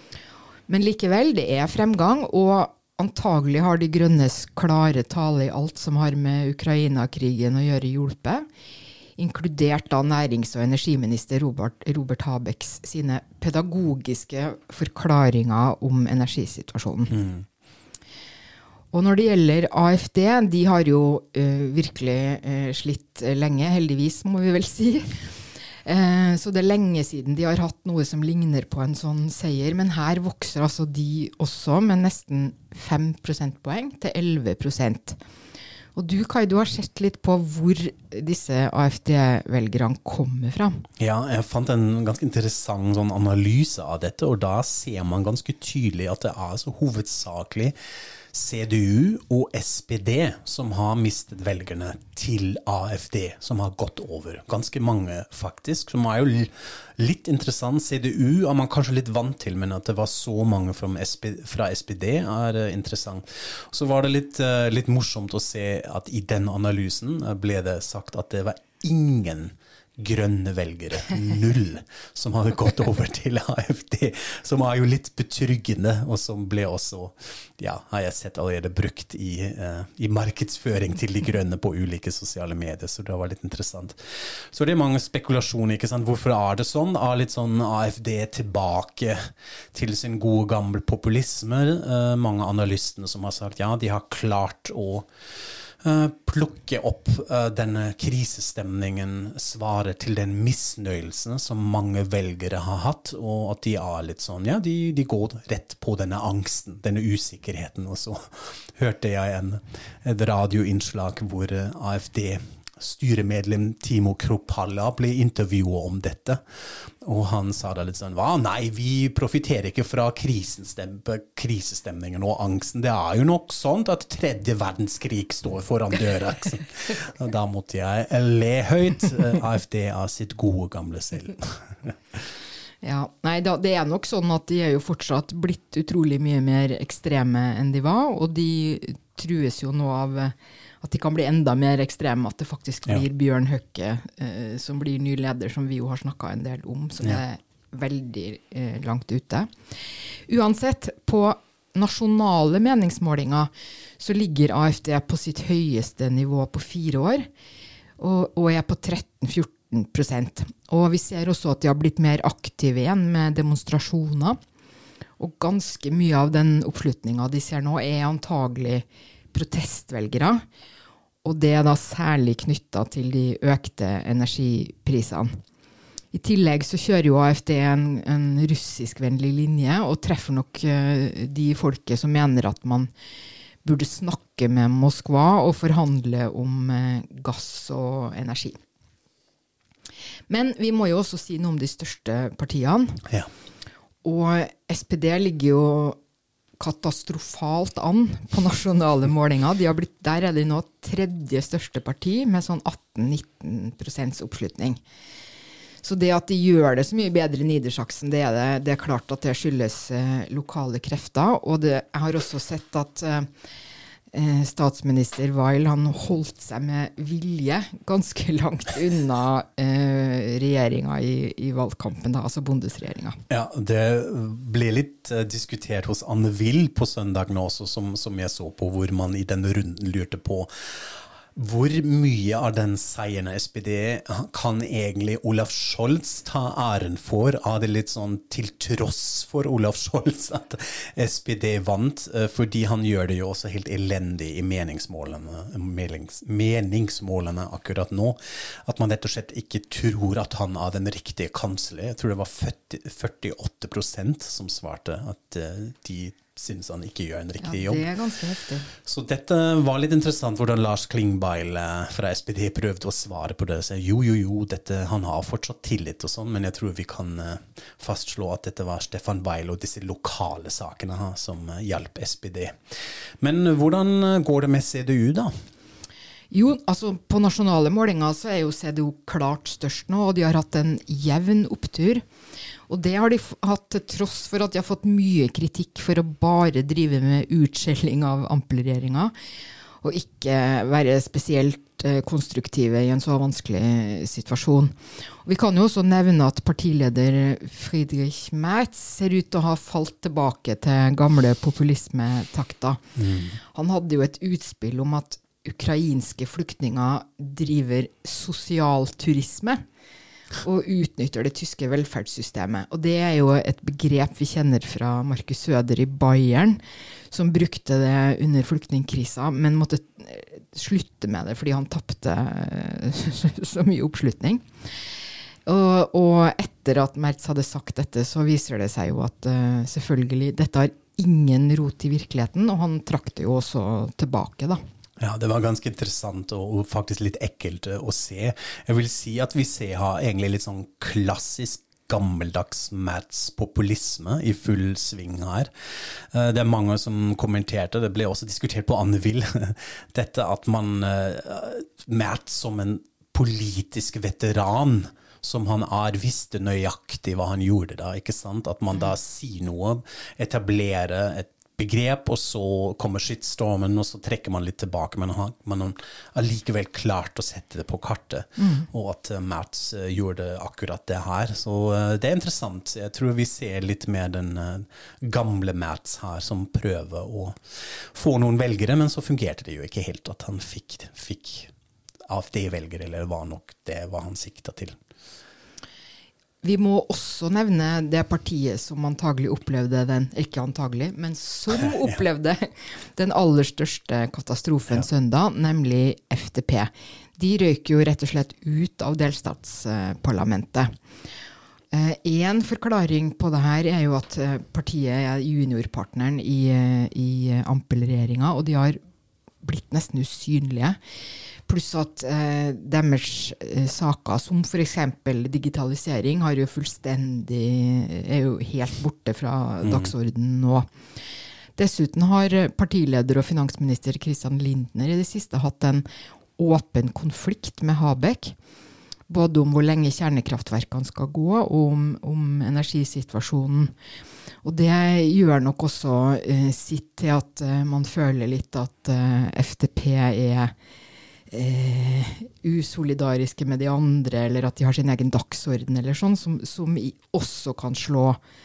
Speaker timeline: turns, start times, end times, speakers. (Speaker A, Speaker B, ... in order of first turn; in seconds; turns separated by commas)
Speaker A: 0.7-8.4, Speaker A: 9.2-17.2, Speaker B: 17.1-17.4, Speaker A: 18.9-25.3, Speaker A: 25.8-35.2, Speaker A: 35.9-40.8, Speaker B: 41.0-47.8, Speaker B: 48.3-84.0, Speaker B: 84.5-95.1, Speaker B: 95.8-132.2, Speaker A: 132.8-149.5, Speaker A: 150.3-157.3, Speaker A: 158.0-164.4, Speaker A: 165.2-170.4, Speaker A: 171.2-175.3, Speaker A: 176.1-182.9, Speaker A: 183.6-188.6, Speaker A: 190.3-193.0, Speaker A: 194.0-196.0, Speaker A: 196.6-204.8, Speaker A: 205.8-213.3, Speaker A: 214.1-223.2, Speaker B: 223.3-230.5, Speaker B: 231.3-257.9, Speaker A: 257.4-258.7, Speaker B: 258.8-272.6, Speaker B: 273.2-275.3, Speaker A: 276.3-282.0, Speaker A: 282.7-289.1, Speaker A: 289.8-302.8, Speaker B: 303.0-303.4, Speaker A: 303.5-309.6, Speaker A: 310.4-316.6, Speaker A: 317.1-324.4, Speaker A: 325.4-334.6, Speaker B: 335.0-345.5, Speaker B: 346.1-381.5, Speaker A: 368.4-368.6, Speaker B: 382.1-384.8, Speaker A: 386.4-400.7, Speaker A: 401.7-408.8, Speaker A: 409.4-410.8, Speaker A: 411.5-420.7, Speaker B: 419.6-419.9, Speaker A: 421.6-425.9, Speaker A: 426.4-428.3, Speaker A: 429.1-433.7, Speaker A: 434.4-440.5, Speaker A: 441.3-448.2